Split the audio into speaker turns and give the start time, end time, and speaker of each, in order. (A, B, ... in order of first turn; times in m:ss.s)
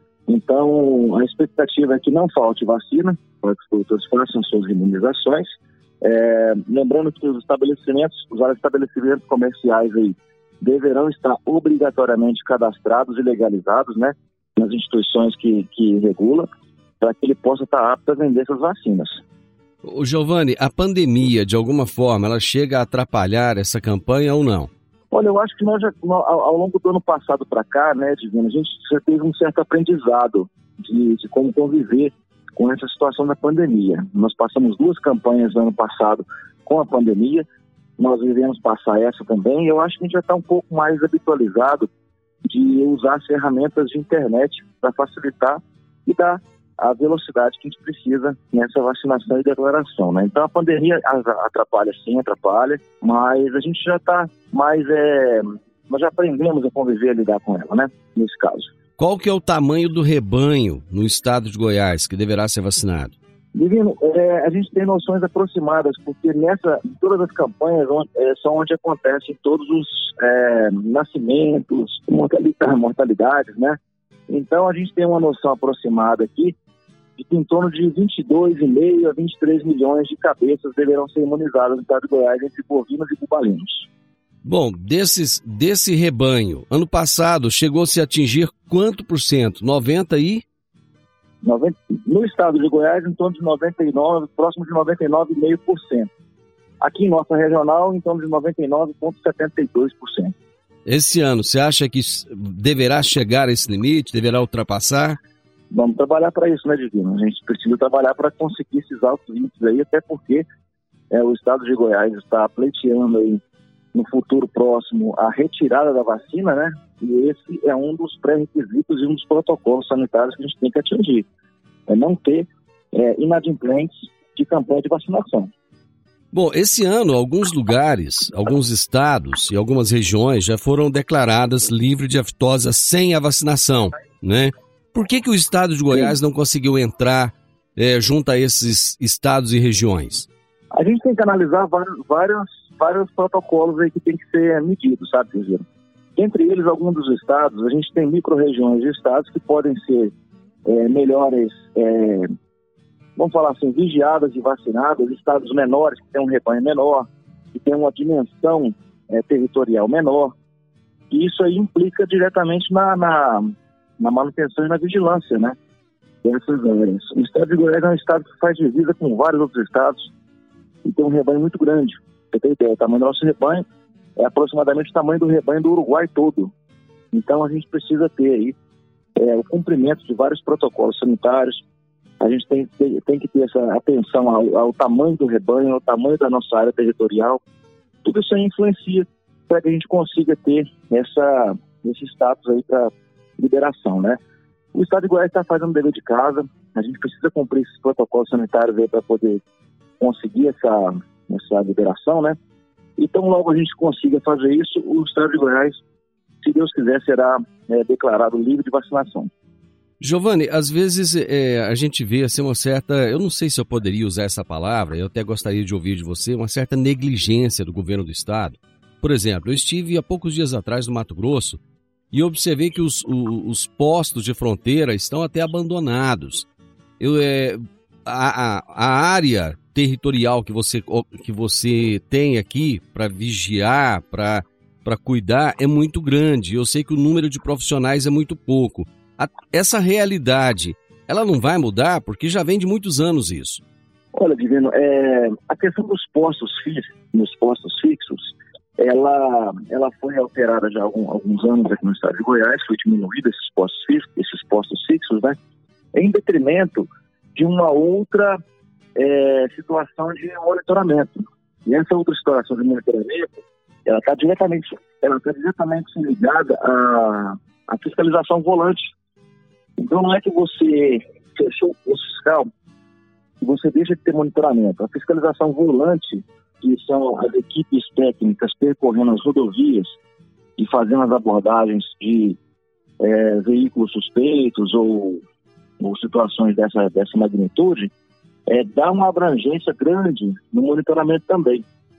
0:00.3-0:05.5 A
0:06.0-0:16.5 A
0:17.0-0:19.2 A
0:19.8-0:24.7 B
0:25.1-0:37.5 A
0:38.0-0:41.9 A
0:42.5-0:58.7 A
0:59.0-1:03.2 B
1:03.6-1:13.8 A
1:14.3-1:16.6 A
1:17.2-1:23.9 A
1:24.4-1:30.4 B
1:31.4-1:36.1 A
1:36.8-1:40.3 A
1:40.9-1:45.2 B
1:45.7-1:50.4 A
1:51.1-1:53.4 A
1:53.9-2:01.3 A
2:01.9-2:05.5 A
2:06.3-2:20.3 B
2:20.7-2:25.6 A
2:26.2-2:30.1 A
2:30.7-2:32.3 A
2:33.2-2:40.4 A
2:41.1-2:45.6 A
2:46.2-2:50.1 A
2:50.8-2:53.6 A
2:54.2-2:56.5 A
2:57.1-2:58.6 A
2:59.2-3:01.6 A
3:02.2-3:07.4 A
3:08.0-3:14.2 A
3:14.7-3:19.4 A
3:20.0-3:22.4 A
3:23.0-3:25.8 A
3:26.4-3:29.3 A
3:30.0-3:41.6 B
3:42.1-3:46.5 B
3:47.0-4:03.6 B
4:04.1-4:15.4 A
4:15.9-4:18.4 A
4:19.0-4:23.3 A
4:23.9-4:28.9 A
4:29.8-4:32.5 A
4:33.4-4:40.0 A
4:40.6-4:42.4 A
4:43.0-4:45.2 A
4:45.8-4:47.9 A
4:48.5-4:51.6 A